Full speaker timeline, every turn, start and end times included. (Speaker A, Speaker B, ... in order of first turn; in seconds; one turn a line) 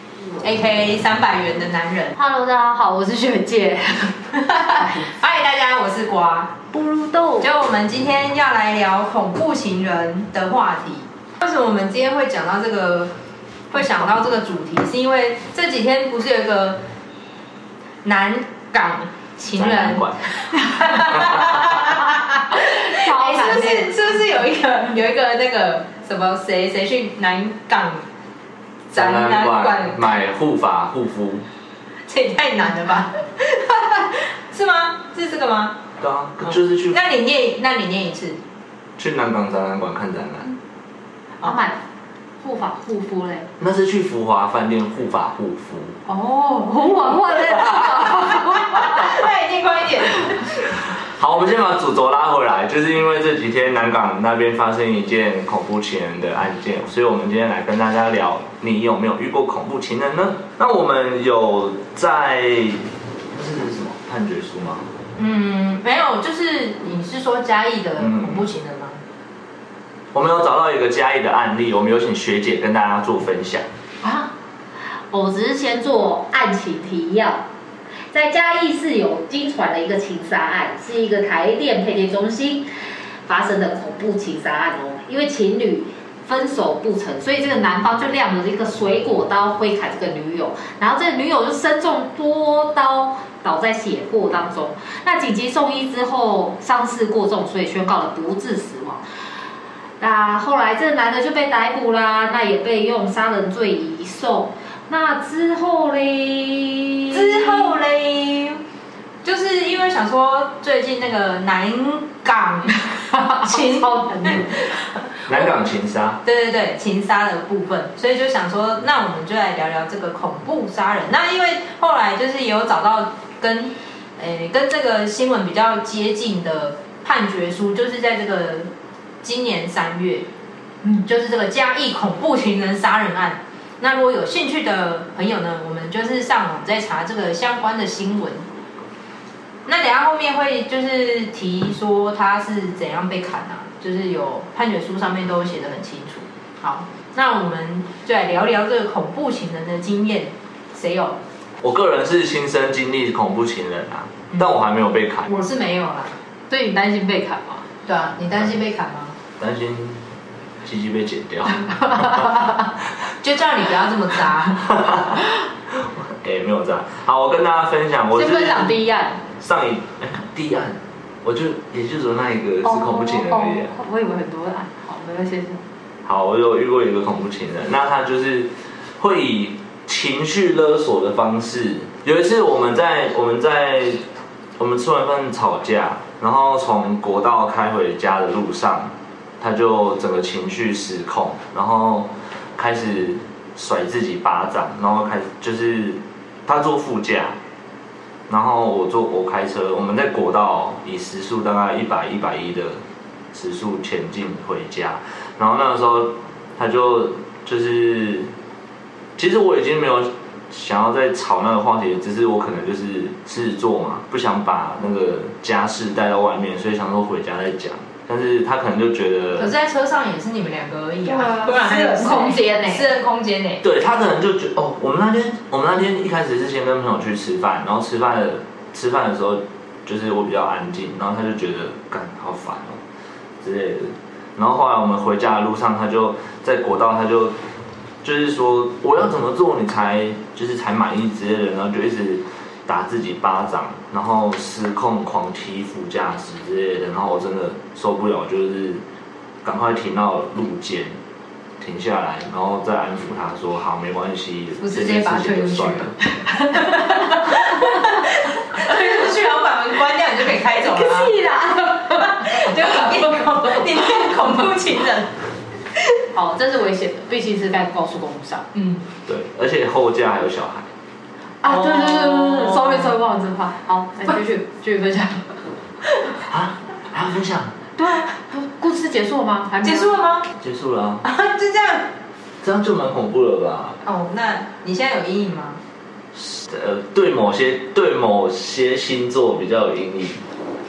Speaker A: 0.4-2.1
Speaker B: 2.1-5.1
Speaker A: 4.5-6.5
Speaker B: 6.7-7.5
Speaker A: 7.4-13.1
Speaker A: 13.7-16.8
Speaker A: 18.0-28.1
Speaker C: 19.5-20.3
Speaker C: 20.9-21.7
Speaker B: 22.5-23.9
Speaker A: 28.9-30.2
Speaker C: 28.9-31.4
Speaker A: 32.1-35.8
Speaker C: 36.0-37.0
Speaker A: 36.5-38.4
Speaker C: 39.0-40.5
Speaker B: 41.4-41.8
Speaker B: 42.4-43.5
Speaker C: 43.6-46.0
Speaker B: 46.1-49.0
Speaker A: 47.9-50.7
Speaker C: 50.7-64.9
Speaker A: 65.2-69.0
Speaker C: 68.0-68.4
Speaker C: 70.1-73.7
Speaker B: 74.0-74.3
Speaker B: 75.1-77.4
Speaker B: 78.1-82.7
Speaker B: 83.2-99.0
Speaker B: 100.0-107.7
Speaker A: 107.1-108.6
Speaker A: 109.2-114.8
Speaker B: 113.1-114.6
Speaker C: 115.3-116.2
Speaker A: 116.2-128.7
Speaker A: 129.2-130.3
Speaker A: 131.0-138.5
Speaker A: 139.7-151.2
Speaker C: 151.6-155.3
Speaker A: 155.3-156.2
Speaker B: 156.5-157.6
Speaker A: 157.8-159.2
Speaker C: 159.4-160.1
Speaker C: 160.6-162.4
Speaker B: 162.0-162.3
Speaker A: 163.2-164.7
Speaker C: 164.6-168.8
Speaker B: 168.1-169.2
Speaker C: 169.4-173.7
Speaker B: 172.6-175.6
Speaker C: 176.0-184.0
Speaker C: 184.6-197.4
Speaker C: 198.3-202.8
Speaker C: 203.3-208.3
Speaker C: 209.2-219.5
Speaker A: 219.4-223.6
Speaker B: 221.0-222.9
Speaker C: 223.6-232.8
Speaker C: 233.4-237.3
Speaker C: 238.0-248.8
Speaker C: 249.4-250.9
Speaker C: 251.6-255.9
Speaker A: 254.6-261.2
Speaker B: 256.4-257.8
Speaker B: 260.7-263.6
Speaker A: 261.9-265.1
Speaker B: 266.1-268.4
Speaker A: 268.5-268.8
Speaker C: 269.1-270.7
Speaker B: 271.4-276.2
Speaker A: 271.5-273.0
Speaker C: 276.3-277.5
Speaker B: 277.8-280.0
Speaker A: 279.6-280.2
Speaker C: 280.4-281.0
Speaker A: 281.0-281.9
Speaker C: 282.4-283.8
Speaker A: 283.8-285.6
Speaker C: 286.1-290.2